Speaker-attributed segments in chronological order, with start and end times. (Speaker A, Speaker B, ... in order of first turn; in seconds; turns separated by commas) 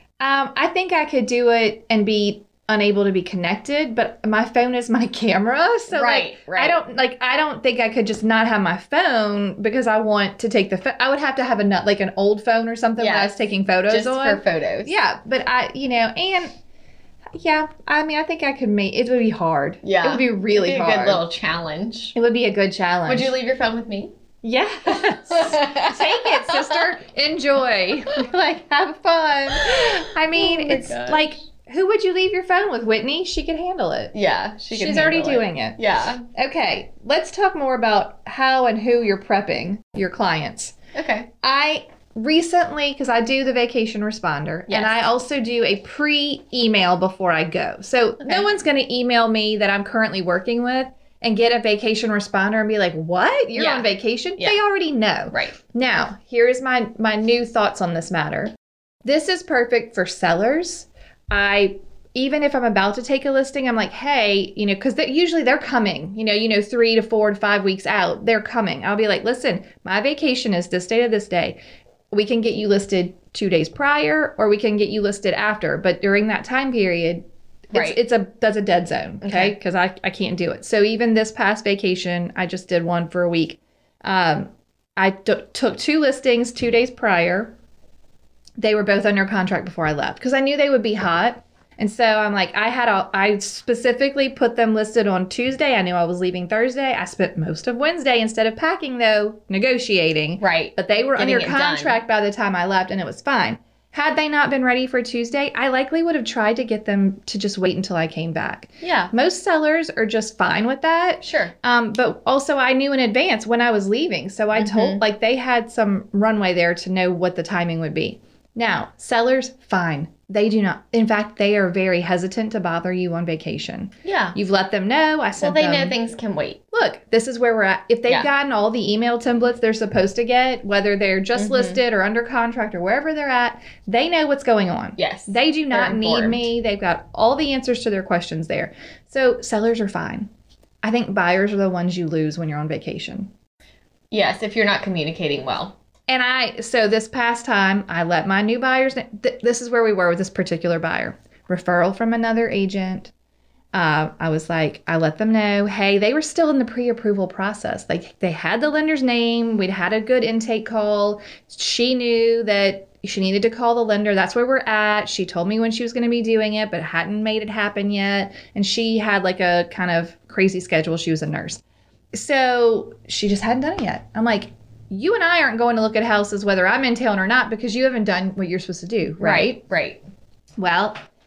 Speaker A: 0.2-16.5, Speaker B: 5.9-6.8, Speaker B: 13.0-13.4, Speaker B: 13.9-15.0, Speaker A: 17.4-21.2, Speaker B: 19.8-22.1, Speaker A: 22.1-23.3, Speaker B: 23.1-24.1, Speaker A: 24.4-34.1, Speaker B: 24.9-26.9, Speaker B: 29.5-31.4, Speaker B: 34.1-36.2, Speaker A: 34.7-35.8, Speaker A: 36.4-40.8, Speaker B: 40.9-41.3, Speaker A: 41.4-71.6, Speaker B: 44.7-45.1, Speaker B: 48.2-48.5, Speaker B: 53.5-54.6, Speaker A: 72.1-87.5, Speaker B: 77.7-78.0, Speaker B: 79.2-79.5, Speaker A: 88.6-126.0, Speaker B: 100.4-102.0, Speaker B: 108.8-109.1, Speaker B: 111.2-111.5, Speaker B: 114.5-115.0, Speaker B: 124.0-124.4, Speaker B: 125.4-126.6, Speaker A: 126.7-140.3, Speaker B: 131.4-131.8, Speaker B: 135.0-136.5, Speaker A: 140.8-143.3, Speaker B: 144.1-145.8, Speaker A: 146.1-153.1, Speaker A: 153.7-171.6, Speaker A: 172.1-179.6, Speaker B: 179.2-180.0, Speaker A: 180.6-181.0